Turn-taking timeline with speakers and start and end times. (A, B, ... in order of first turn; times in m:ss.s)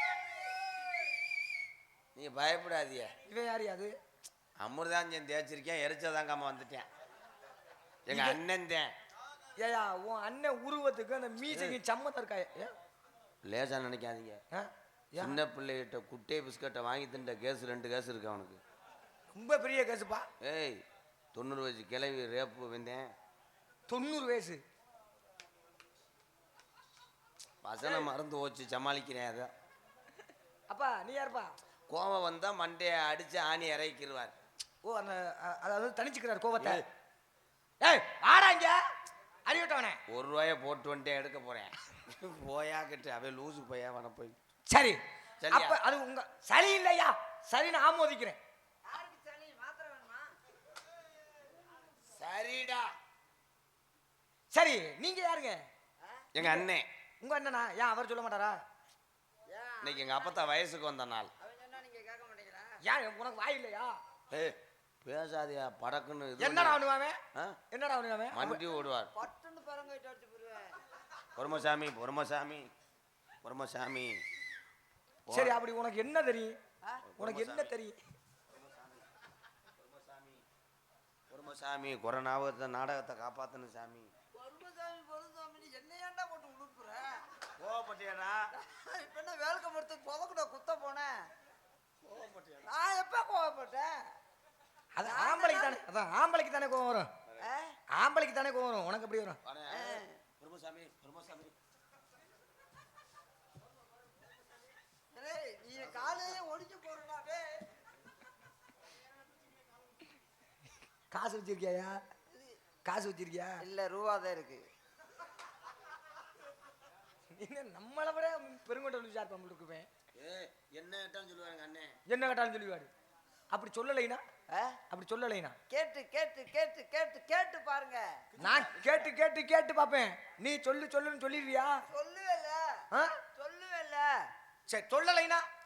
0:02.1-0:03.1 A
0:03.3-0:03.9 B
0:04.6-0:06.9 A
0:08.1-0:08.9 A
0:08.1-0:08.4 B
0:09.6-0:12.7 B
0:11.5-0:11.8 A
0:13.4-0:14.4 A
0:14.5-0:15.4 B
0:15.2-0:18.6 A
0:19.3-0:20.3 B
0:20.4-0:20.8 A
0:21.3-0:23.1 A
0:23.9-0:24.6 B
0:27.6-0:29.5 A
0:30.7-0:31.5 B
0:31.9-0:34.3 A
0:34.8-0:36.8 B
0:36.6-0:36.8 A
0:37.8-0:38.8 B
0:39.5-0:40.0 B
0:40.1-0:44.4 A
0:44.7-0:48.4 B
0:45.4-0:45.8 A
0:48.9-0:50.4 C
0:52.2-0:52.9 A
0:54.5-0:55.6 B
0:56.0-0:56.2 C
0:56.3-0:56.9 A
0:56.4-0:56.6 B
0:57.2-0:58.6 B
0:59.5-1:00.4 C
0:59.8-1:01.3 A
1:01.4-1:02.8 C
1:02.8-1:04.0 B
1:04.3-1:06.8 A
1:06.4-1:07.2 B
1:07.7-1:08.6 B
1:08.3-1:09.1 A
1:09.1-1:10.8 C
1:11.4-1:12.7 A
1:13.4-1:14.2 A
1:15.3-1:15.6 A
1:15.3-1:16.6 B
1:17.1-1:17.7 A
1:17.2-1:18.0 B
1:18.5-1:19.1 A
1:19.8-1:20.4 A
1:21.3-1:24.1 A
1:24.3-1:27.2 C
1:27.6-1:28.5 A
1:28.6-1:31.3 C
1:32.0-1:32.7 A
1:32.7-1:34.1 C
1:35.0-1:37.1 B
1:35.0-1:35.8 C
1:37.4-1:37.8 C
1:38.0-1:39.4 B
1:39.4-1:41.6 A
1:39.7-1:40.2 C
1:45.1-1:47.6 C
1:51.1-1:52.0 B
1:52.3-1:52.6 C
1:52.8-1:53.6 B
1:53.6-1:54.6 C
1:57.3-1:59.9 B
2:00.2-2:02.0 A
2:02.1-2:02.9 B
2:03.5-2:04.2 B
2:04.5-2:04.8 C
2:04.9-2:05.6 B
2:05.7-2:08.2 C
2:08.4-2:09.1 A
2:08.4-2:11.8 B
2:11.9-2:14.3 C
2:12.9-2:13.2 B
2:14.7-2:15.4 B